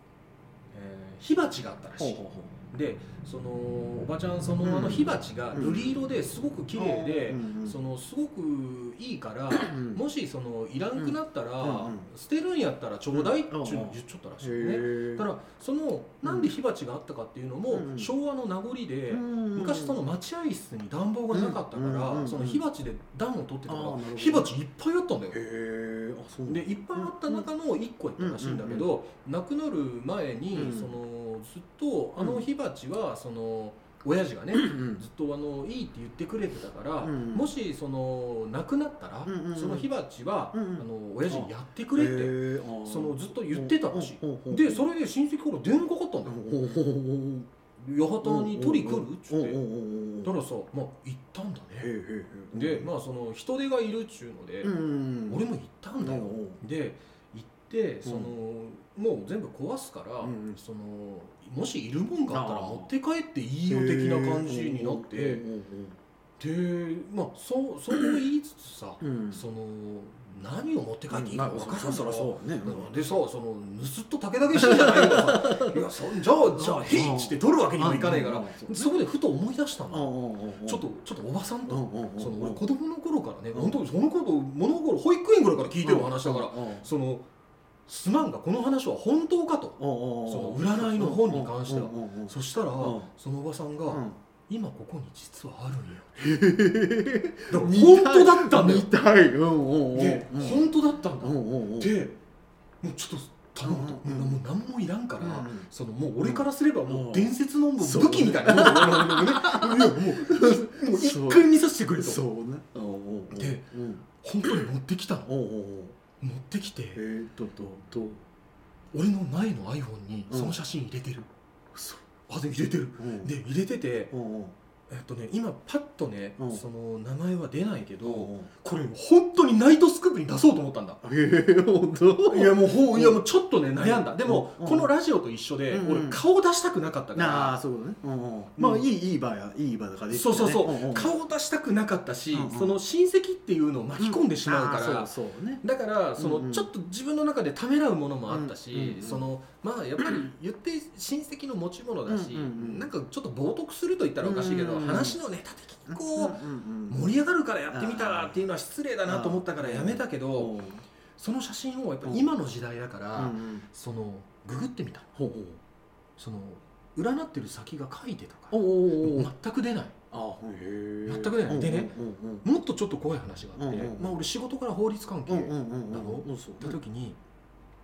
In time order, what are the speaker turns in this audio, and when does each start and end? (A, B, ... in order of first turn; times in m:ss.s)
0:00.7-0:02.2 A
0:02.0-0:02.6 B
0:02.7-0:25.4 A
0:04.6-0:06.0 B
0:06.7-0:07.8 B
0:09.6-0:10.0 B
0:11.0-0:12.1 B
0:13.1-0:15.3 B
0:16.2-0:16.5 B
0:17.7-0:18.1 B
0:19.1-0:20.0 B
0:21.3-0:22.6 B
0:23.7-0:24.5 B
0:25.3-0:27.5 B
0:26.5-0:46.5 A
0:28.2-0:28.9 B
0:30.5-0:31.0 B
0:32.2-0:32.4 B
0:34.5-0:35.0 B
0:37.0-0:37.5 B
0:39.2-0:39.9 B
0:40.5-0:44.9 B
0:46.2-0:47.5 B
0:47.8-0:49.6 A
0:48.2-0:50.4 B
0:50.2-0:51.9 A
0:51.8-0:52.9 B
0:52.5-0:54.7 A
0:54.6-0:55.4 B
0:55.3-1:05.4 A
0:56.0-0:56.6 B
0:58.0-0:58.3 B
1:00.2-1:00.6 B
1:02.3-1:02.9 B
1:03.7-1:06.0 B
1:06.4-1:27.3 A
1:09.0-1:09.4 B
1:11.1-1:13.0 B
1:14.6-1:15.8 B
1:16.5-1:18.9 B
1:19.9-1:20.8 B
1:21.7-1:22.6 B
1:25.8-1:26.9 B
1:27.9-1:36.2 A
1:29.8-1:33.1 B
1:33.9-1:34.2 B
1:36.2-1:40.7 B
1:37.5-1:38.9 A
1:39.9-1:42.2 A
1:41.2-1:41.9 B
1:42.8-1:52.2 A
1:43.6-1:44.4 B
1:45.2-1:54.6 B
1:53.3-1:55.3 A
1:55.2-1:56.0 B
1:56.2-1:57.0 A
1:56.9-1:58.2 B
1:58.9-2:01.3 A
2:00.3-2:00.5 B
2:01.7-2:02.0 B
2:02.3-2:04.1 A
2:03.0-2:03.3 B
2:04.1-2:04.5 B
2:04.9-2:11.0 A
2:06.4-2:06.6 B
2:08.0-2:08.5 B
2:11.0-2:13.2 B
2:12.3-2:17.6 A
2:13.8-2:14.9 B
2:15.7-2:16.2 B
2:17.1-2:21.1 B
2:18.6-2:18.8 A
2:20.1-2:25.1 A
2:22.3-2:22.8 B
2:24.0-2:25.6 B
2:25.6-2:40.5 A
2:26.2-2:26.7 B
2:28.3-2:29.3 B
2:32.1-2:32.9 B
2:34.2-2:35.2 B
2:35.8-2:37.1 B
2:37.7-2:38.4 B
2:39.0-2:40.8 B
2:41.2-2:45.1 A
2:43.1-2:43.7 B
2:45.1-2:45.6 B
2:46.2-2:50.0 A
2:48.5-2:49.3 B
2:50.1-2:52.4 B
2:51.0-2:57.2 A
2:53.6-2:54.2 B
2:55.3-2:56.8 B